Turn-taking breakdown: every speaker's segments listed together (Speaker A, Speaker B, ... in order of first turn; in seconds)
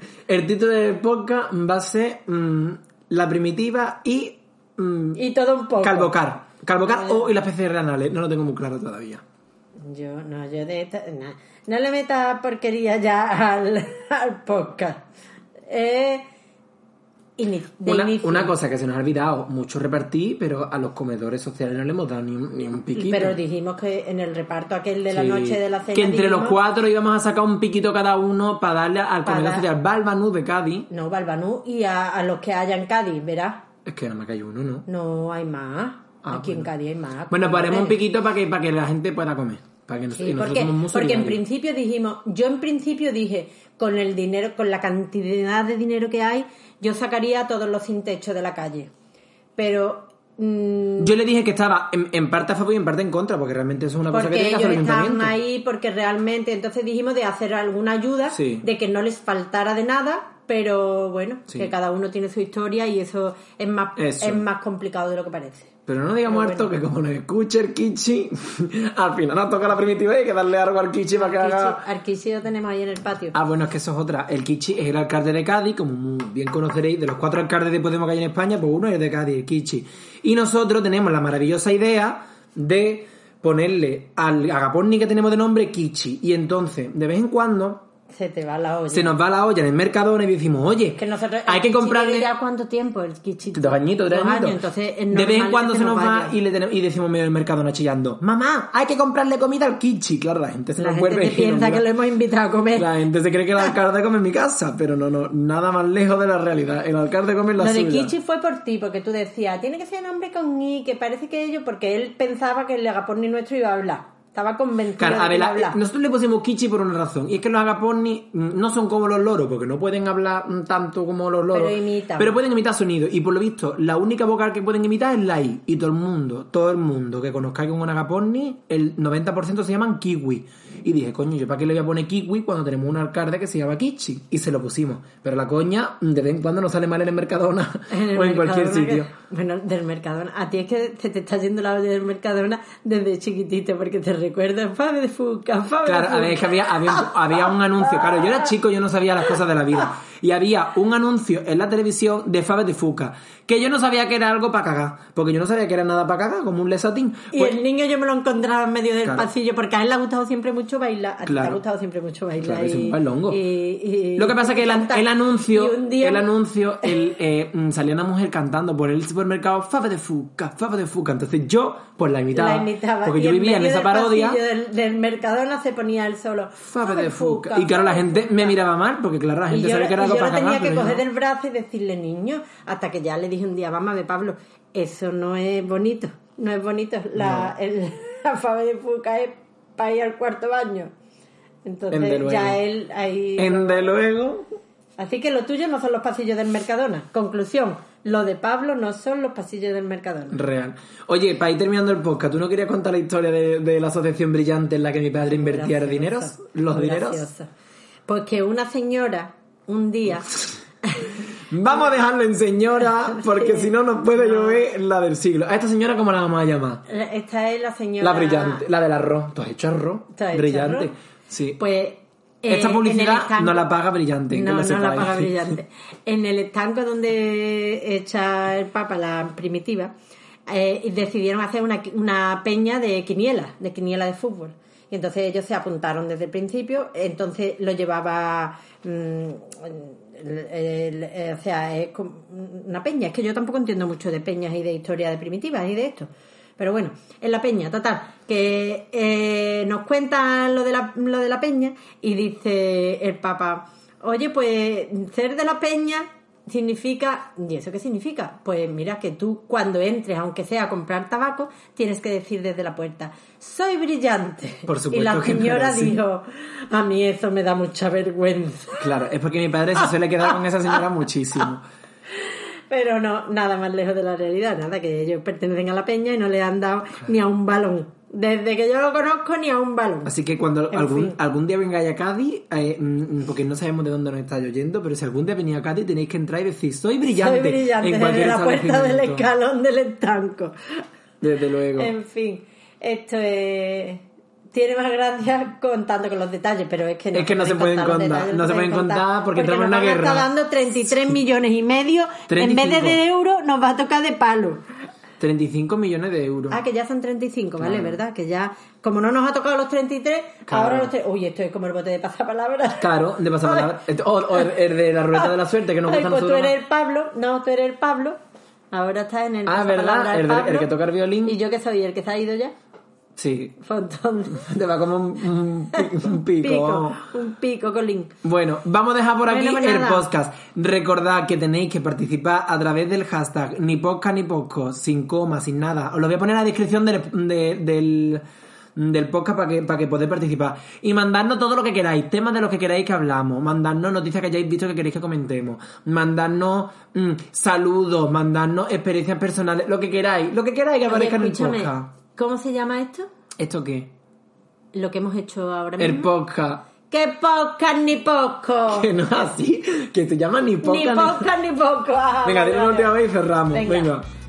Speaker A: 0.3-5.2, 5.8-9.2, 17.9-23.4, 25.1-30.9, 33.9-34.9, 36.2-36.7, 37.3-41.4, 51.0-55.4, 58.3-58.6, 64.0-64.4, 65.9-71.8, 73.3-87.8, 88.9-92.3, 93.5-94.6, 95.1-101.8, 102.8-108.1, 115.0-139.1, 145.8-157.6, 161.2-161.6, 162.4-163.4, 164.2-174.4, 176.7-181.1, 187.2-187.5, 191.9-192.6, 193.4-194.5, 200.3-207.3, 211.5-216.8, 218.0-221.6, 222.5-225.5, 264.7-266.0, 268.8-271.6, 280.1-289.3, 291.2-291.9, 297.1-300.3, 302.3-303.0, 305.2-306.6, 307.6-308.0, 310.5-310.9, 312.8-316.6, 319.5-321.4, 323.2-323.6, 324.4-327.0, 328.2-338.2, 338.8-351.9, 353.4-353.9, 355.8-356.6, 358.7-361.3, 362.2-364.1
Speaker B: 5.2-6.2, 6.9-7.2, 9.8-15.1, 15.7-16.3, 17.4-18.5, 22.9-26.6, 29.3-29.7, 30.9-33.6, 34.9-38.0, 40.1-48.9, 49.6-51.1, 54.1-65.7, 66.3-66.7, 71.2-73.4, 88.1-89.2, 91.0-96.4, 100.8-102.9, 107.6-115.8, 121.5-122.4, 137.9-148.4, 157.3-166.3, 172.3-178.6, 179.5-190.9, 191.7-193.9, 195.0-200.4, 205.3-207.5, 208.1-211.2, 213.1-214.6, 216.9-218.7, 220.2-220.9, 221.6-223.7, 224.3-229.9, 230.5-268.9, 272.2-280.1, 280.7-281.2, 287.1-290.8, 291.8-304.6, 306.5-313.7, 315.1-318.2, 318.7-320.7, 321.2-322.5, 323.6-324.5, 325.8-328.1, 329.3-330.1, 350.9-353.1, 354.7-356.1, 356.9-358.9, 360.6-362.9, 363.5-363.9